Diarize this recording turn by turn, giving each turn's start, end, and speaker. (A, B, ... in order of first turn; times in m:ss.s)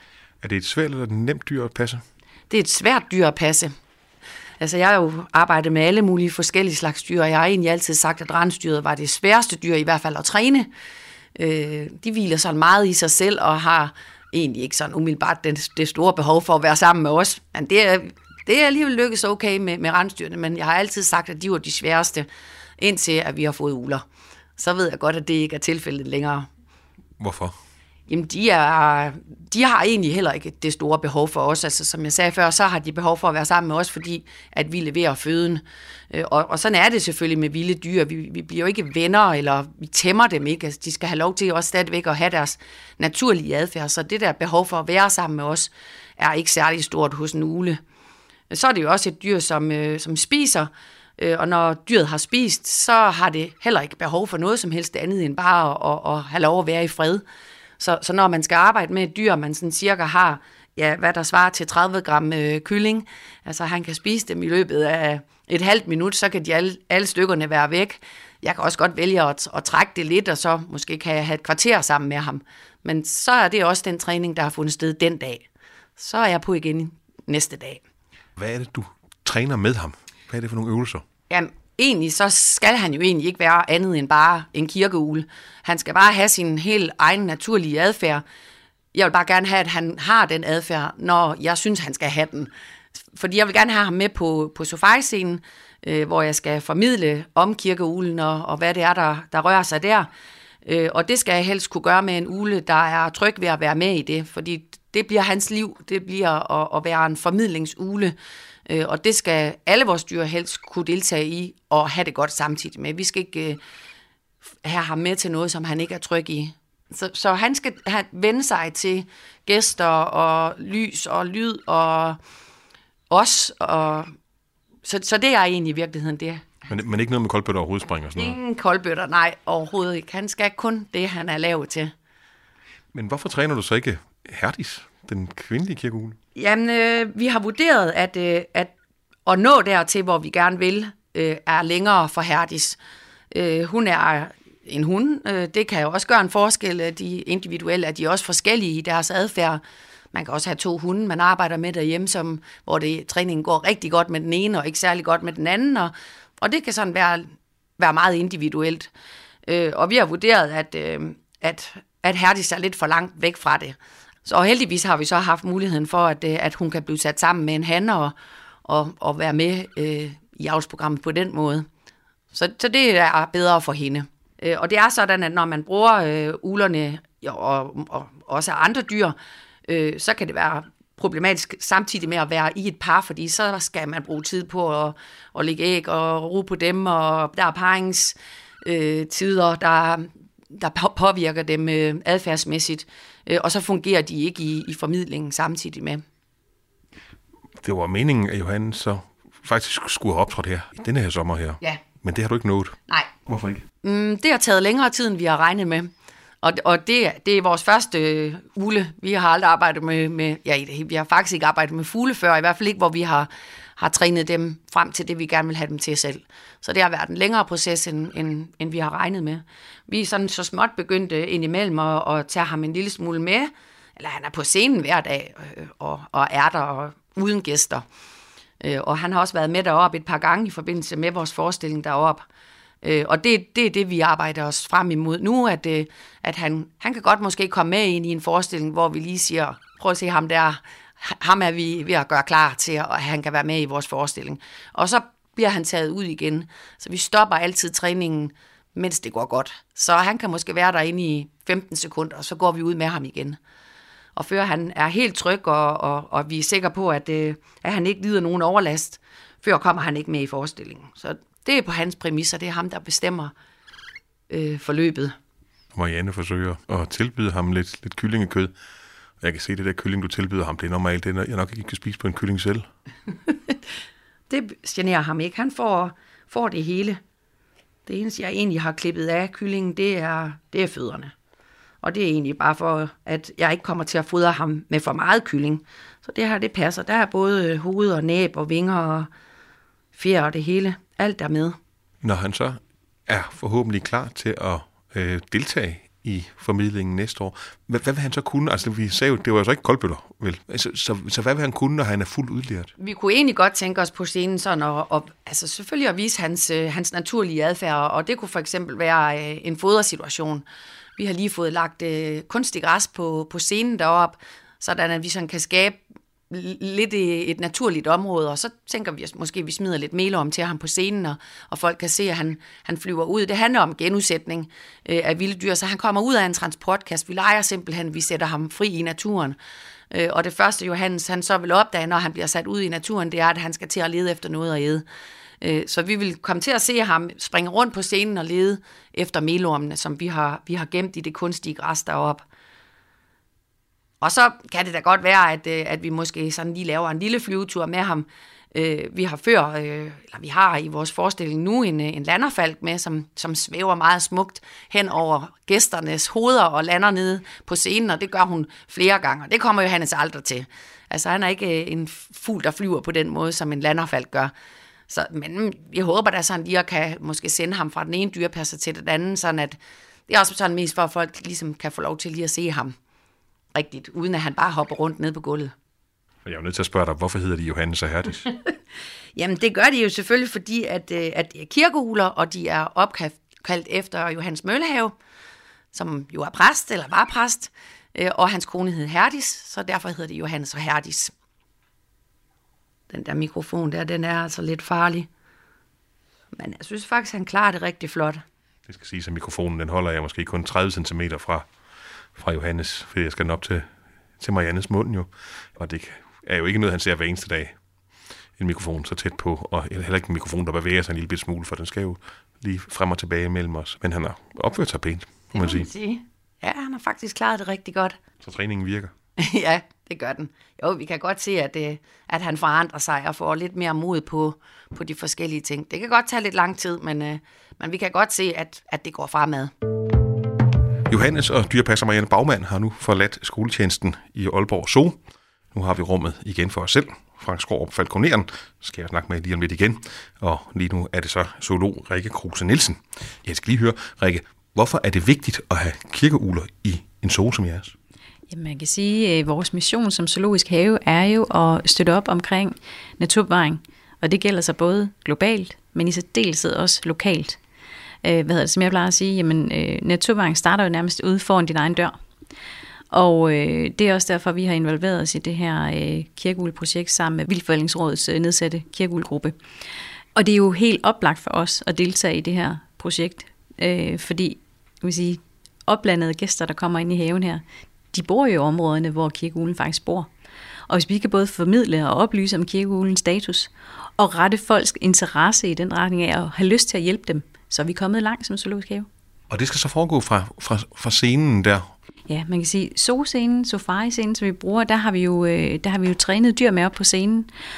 0:00.4-0:02.0 A
0:02.5-0:03.7 B
0:04.6-0:10.7 B
0:11.4-0:22.3 B
0:22.8-0:24.0 B
0:24.6-0:26.5 B
0:27.2-0:27.6 A
0:28.1-0:47.8 B
0:48.5-0:57.2 B
0:57.8-1:15.4 B
1:16.0-1:17.8 B
1:18.4-1:21.0 A
1:21.3-1:28.2 B
1:28.9-1:32.5 B
1:33.1-1:40.1 B
1:40.6-1:48.2 B
1:48.7-1:53.6 B
1:54.6-2:02.2 B
2:03.1-2:04.1 B
2:04.8-2:06.5 B
2:06.7-2:08.4 A
2:08.2-2:11.9 B
2:12.9-2:16.2 A
2:16.3-2:18.7 B
2:19.2-2:22.8 B
2:23.3-2:29.6 B
2:30.1-2:38.9 B
2:39.4-2:51.7 B
2:52.3-2:59.2 B
2:59.7-3:16.0 B
3:17.6-3:23.6 A
3:23.8-3:25.9 B
3:26.4-3:47.8 B
3:48.6-3:52.2 B
3:52.8-4:13.4 B
4:14.2-4:23.3 B
4:24.3-4:25.1 B
4:25.7-4:28.5 A
4:29.2-4:32.7 A
4:34.3-4:37.0 B
4:37.8-4:41.1 B
4:41.8-4:49.1 B
4:49.9-4:51.6 B
4:52.0-5:02.7 A
5:02.8-5:10.4 B
5:11.0-5:29.4 B
5:29.9-5:34.8 B
5:35.4-5:42.2 B
5:44.0-6:04.3 B
6:04.9-6:12.7 B
6:13.5-6:15.5 B
6:16.2-6:18.3 A
6:19.2-6:24.9 B
6:25.7-6:31.1 B
6:32.9-6:35.1 B
6:36.3-6:38.2 B
6:38.7-6:41.5 A
6:42.1-6:43.7 A
6:44.2-6:47.6 A
6:48.4-6:55.7 A
6:55.3-6:58.0 B
6:58.2-6:58.9 A
6:59.2-7:09.5 B
7:10.9-7:15.0 A
7:15.5-7:27.7 A
7:28.3-7:37.4 C
7:38.0-7:42.0 C
7:42.9-7:49.4 C
7:50.1-8:00.1 C
8:00.7-8:08.9 C
8:09.3-8:11.7 A
8:12.1-8:17.3 C